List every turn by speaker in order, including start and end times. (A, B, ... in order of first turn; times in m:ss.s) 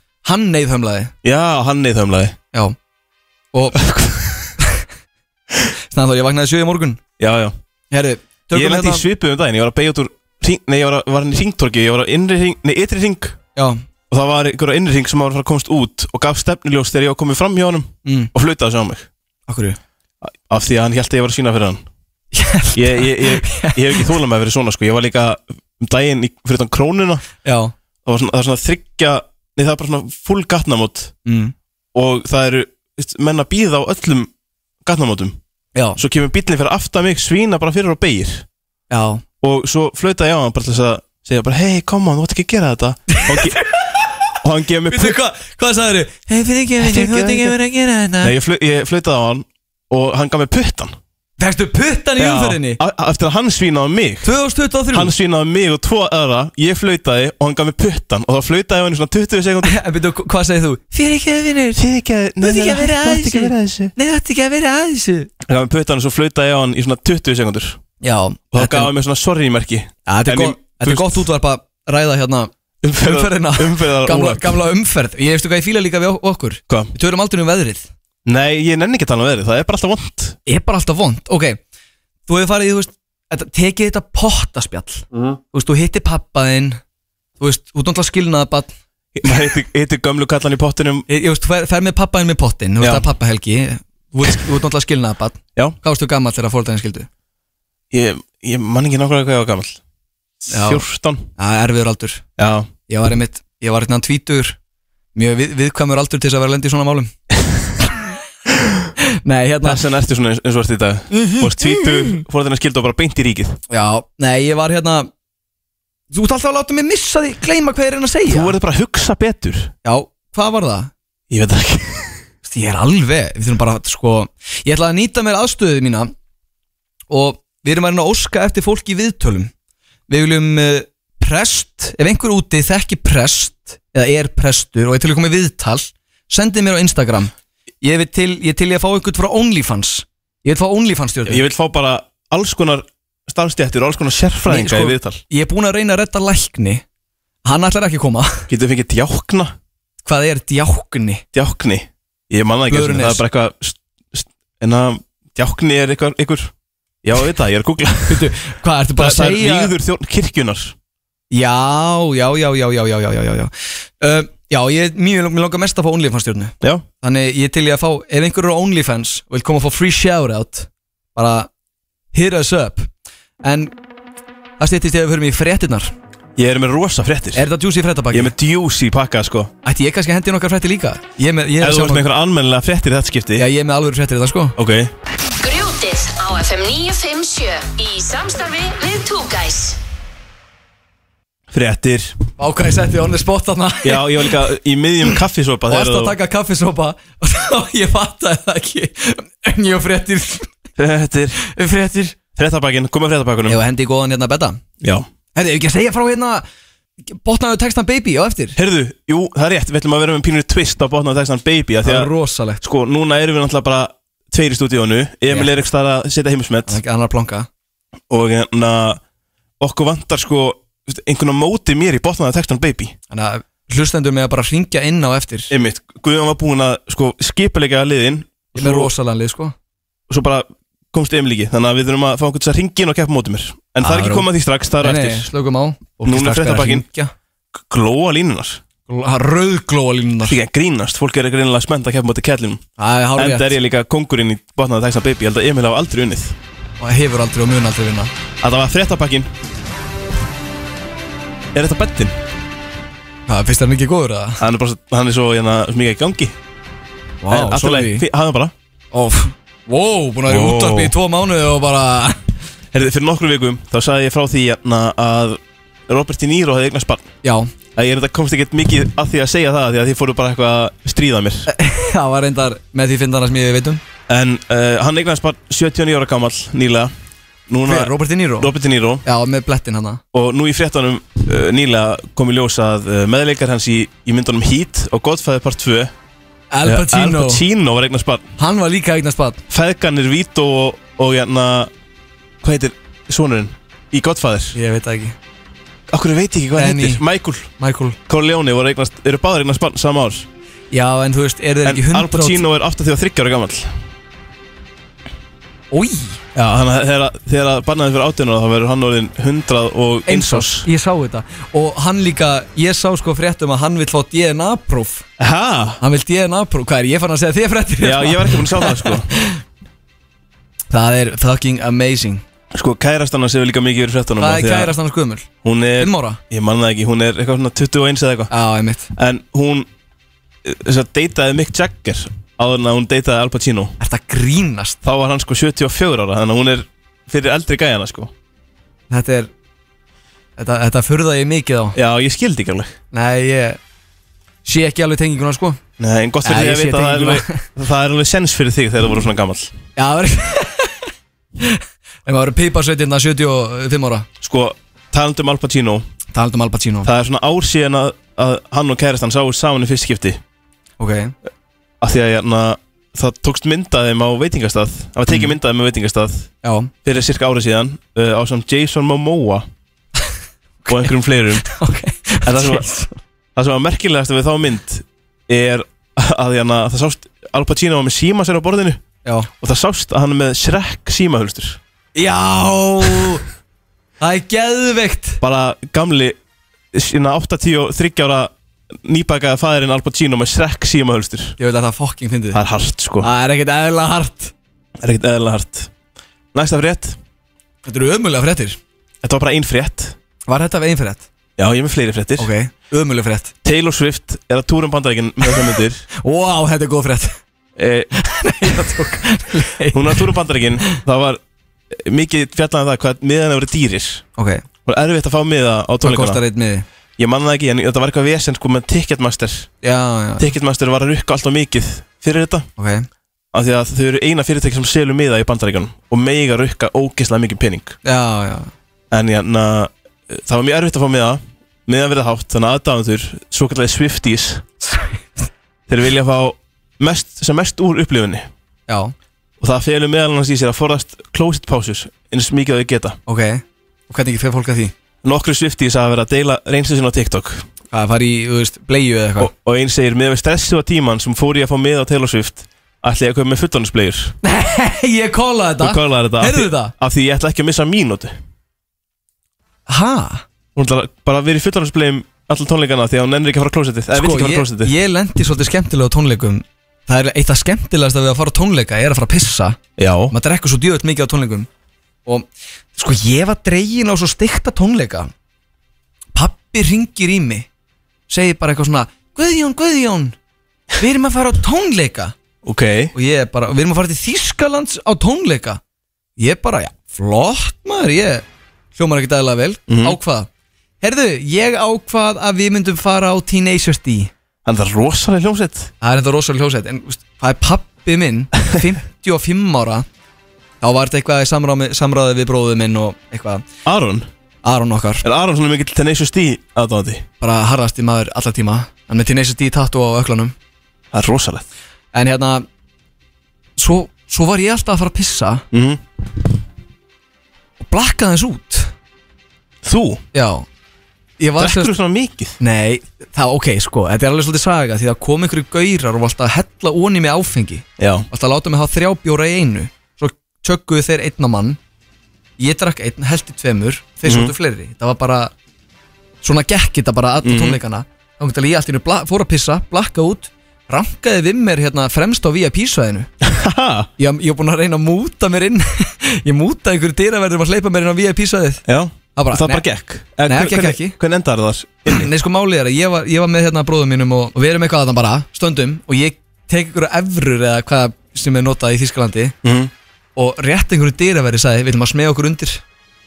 0:00.2-0:01.1 A
0:01.2-0:02.4 B
0:03.5-0:03.8 A
0:03.8-0:04.5 B
0:05.9-0:07.0 A
0:07.2-0:07.6 B
0:07.9-0:09.0 A
0:08.5-0:13.4 B
0:13.6-0:13.8 A
0:14.1-0:19.1 B
0:18.0-0:18.3 A
0:19.5-0:19.8 A
0:20.2-0:21.8 B
0:22.3-0:24.1 A
0:22.7-0:27.2 B
0:27.4-0:27.7 A
0:28.0-0:31.1 B
0:31.2-0:31.5 A
0:31.9-0:34.3 B
0:34.8-0:35.4 B
0:36.0-0:38.4 B
0:38.9-0:39.2 A
0:39.4-0:43.6 B
0:43.1-0:44.0 A
0:44.4-0:45.2 B
0:44.9-0:48.3 A
0:46.8-0:47.6 B
0:48.2-0:51.0 B
0:51.4-0:52.8 A
0:52.2-0:54.3 B
0:54.2-0:55.1 A
0:54.9-0:59.8 B
0:59.6-1:01.8 A
1:01.8-1:03.9 B
1:02.4-1:05.3 A
1:05.4-1:07.8 B
1:08.0-1:08.9 A
1:08.5-1:11.2 B
1:10.1-1:17.9 A
1:12.8-1:14.6 B
1:18.2-1:20.4 B
1:20.4-1:21.6 A
1:22.3-1:26.8 A
1:27.4-1:28.7 A
1:29.1-1:31.0 B
1:31.1-1:37.1 A
1:32.8-1:33.1 B
1:37.9-1:39.8 B
1:40.5-1:40.8 A
1:40.5-1:41.2 B
1:41.4-1:42.2 A
1:42.4-1:42.7 B
1:42.9-1:44.6 A
1:45.1-1:47.1 A
1:49.0-1:49.8 A
1:49.6-1:53.6 B
1:51.1-1:52.2 A
1:53.7-1:55.1 A
1:56.1-1:58.6 A
1:58.3-1:59.7 B
1:59.8-2:00.9 A
2:01.3-2:02.2 B
2:02.4-2:06.1 A
2:07.1-2:09.5 A
2:10.1-2:17.3 A
2:17.8-2:21.4 A
2:21.2-2:25.2 B
2:24.5-2:26.8 A
2:27.4-2:28.5 A
2:28.5-2:29.5 B
2:30.0-2:31.2 A
2:31.3-2:36.5 B
2:32.7-2:33.2 A
2:37.0-2:38.3 B
2:38.1-2:39.7 A
2:39.0-2:40.7 B
2:41.3-2:51.5 A
2:52.1-2:52.9 A
2:53.4-2:53.7 A
2:54.6-2:55.9 A
2:56.4-2:57.4 B
2:57.3-2:58.3 A
2:58.1-2:59.5 B
2:59.6-3:02.1 A
3:01.6-3:03.5 B
3:03.4-3:04.6 A
3:04.6-3:04.9 B
3:05.4-3:09.8 C
3:11.5-3:12.2 B
3:12.4-3:14.4 A
3:13.8-3:16.2 B
3:15.7-3:20.5 A
3:20.8-3:21.4 B
3:21.4-3:22.2 A
3:22.4-3:23.6 B
3:23.5-3:24.6 A
3:24.8-3:25.0 B
3:25.3-3:26.4 A
3:27.1-3:28.6 A
3:28.6-3:32.1 B
3:31.8-3:32.6 A
3:32.6-3:36.8 B
3:36.7-3:37.5 A
3:38.1-3:39.0 B
3:39.6-3:42.9 B
3:43.1-3:45.5 A
3:45.5-3:48.9 B
3:48.5-3:49.5 A
3:50.1-3:55.3 B
3:53.8-3:54.3 A
3:54.8-3:57.1 A
3:56.0-3:56.9 B
3:57.5-3:58.6 B
3:58.9-4:00.4 A
4:00.3-4:02.6 B
4:02.8-4:03.5 A
4:03.2-4:06.4 B
4:06.8-4:08.1 A
4:08.4-4:09.3 B
4:11.5-4:12.2 B
4:13.3-4:14.4 A
4:14.4-4:16.3 B
4:17.2-4:18.0 A
4:17.3-4:18.5 B
4:18.9-4:22.2 A
4:20.3-4:20.9 B
4:22.7-4:27.0 B
4:27.2-4:27.5 A
4:27.8-4:31.5 B
4:31.5-4:33.8 A
4:34.1-4:36.9 B
4:37.5-4:39.0 B
4:37.6-4:38.5 A
4:39.0-4:40.0 A
4:40.1-4:45.9 B
4:46.5-4:47.4 A
4:46.6-4:48.3 B
4:48.4-4:49.4 A
4:49.5-4:51.7 B
4:52.4-4:54.6 B
4:54.5-4:55.2 A
4:55.9-4:57.5 B
4:56.6-4:57.0 A
4:57.6-4:58.0 A
4:58.1-5:00.3 B
5:00.7-5:02.4 A
5:01.6-5:03.8 B
5:05.7-5:06.2 A
5:06.3-5:10.7 B
5:10.1-5:15.0 A
5:15.2-5:15.8 B
5:15.8-5:19.4 A
5:17.8-5:19.1 B
5:20.7-5:22.2 A
5:22.5-5:24.7 B
5:24.2-5:26.2 A
5:25.4-5:28.3 B
5:28.3-5:28.9 A
5:28.9-5:29.7 B
5:30.4-5:33.8 B
5:33.8-5:34.8 A
5:34.8-5:38.1 B
5:38.9-5:39.3 A
5:40.4-5:41.8 A
5:41.7-5:42.8 B
5:42.9-5:43.6 A
5:44.4-5:45.6 A
5:45.8-5:49.5 B
5:46.2-5:47.4 A
5:49.8-5:50.8 A
5:51.4-5:54.1 A
5:54.2-5:55.8 B
5:56.1-5:56.9 A
5:56.8-6:00.2 B
6:00.8-6:01.1 A
6:01.8-6:06.3 B
6:06.4-6:06.7 A
6:06.8-6:09.5 B
6:10.6-6:12.9 A
6:10.7-6:11.4 B
6:12.2-6:12.7 B
6:13.3-6:18.8 B
6:19.4-6:21.6 B
6:21.9-6:23.2 A
6:24.0-6:25.2 A
6:25.2-6:26.2 B
6:26.7-6:31.4 B
6:31.4-6:32.4 A
6:32.3-6:33.1 B
6:33.0-6:34.3 A
6:34.8-6:35.7 B
6:36.3-6:37.0 B
6:37.6-6:38.6 A
6:39.0-6:40.0 B
6:40.3-6:41.0 A
6:41.4-6:42.3 B
6:42.2-6:43.3 A
6:43.4-6:45.8 B
6:46.0-6:47.2 A
6:47.6-6:47.9 B
6:48.0-6:50.1 A
6:49.7-6:54.0 B
6:54.2-6:54.4 A
6:54.6-6:56.2 B
6:55.8-6:56.6 A
6:57.0-6:59.5 B
6:59.6-7:00.3 A
7:00.2-7:02.5 B
7:02.6-7:02.9 A
7:03.3-7:07.8 B
7:07.8-7:08.5 A
7:08.9-7:14.4 B
7:14.6-7:14.9 A
7:15.7-7:18.3 B
7:18.7-7:18.9 A
7:19.4-7:23.0 B
7:23.1-7:24.7 A
7:25.0-7:27.5 B
7:27.7-7:29.3 A
7:29.2-7:34.1 B
7:34.2-7:36.7 A
7:35.6-7:38.2 B
7:39.7-7:40.2 A
7:40.5-7:44.7 B
7:43.9-7:49.6 A
7:49.8-7:50.1 B
7:50.1-7:51.5 A
7:52.0-7:55.1 A
7:56.1-7:57.5 A
7:58.1-8:00.1 A
8:00.8-8:02.1 A
8:02.4-8:02.9 B
8:02.9-8:05.6 A
8:06.2-8:10.3 A
8:09.7-8:10.0 B
8:10.8-8:14.1 A
8:14.4-8:15.7 B
8:15.8-8:19.8 A
8:20.6-8:23.4 A
8:23.6-8:24.1 B
8:24.4-8:25.0 A
8:25.0-8:27.0 B
8:27.2-8:30.3 A
8:30.9-8:31.4 B
8:31.9-8:32.5 A
8:33.6-8:35.4 A
8:35.5-8:35.8 B
8:37.6-8:38.7 A
8:39.6-8:40.0 B
8:40.1-8:40.4 A
8:41.2-8:41.7 A
8:41.4-8:42.4 B
8:42.4-8:51.6 A
8:47.8-8:48.1 B
8:52.4-8:55.3 A
8:54.0-8:54.3 B
8:56.2-9:03.1 A
8:57.2-8:57.6 B
9:03.2-9:03.9 B
9:04.0-9:08.6 A
9:08.6-9:12.1 B
9:09.2-9:09.6 A
9:10.2-9:11.0 A
9:11.8-9:19.3 A
9:19.4-9:19.7 B
9:20.2-9:22.6 A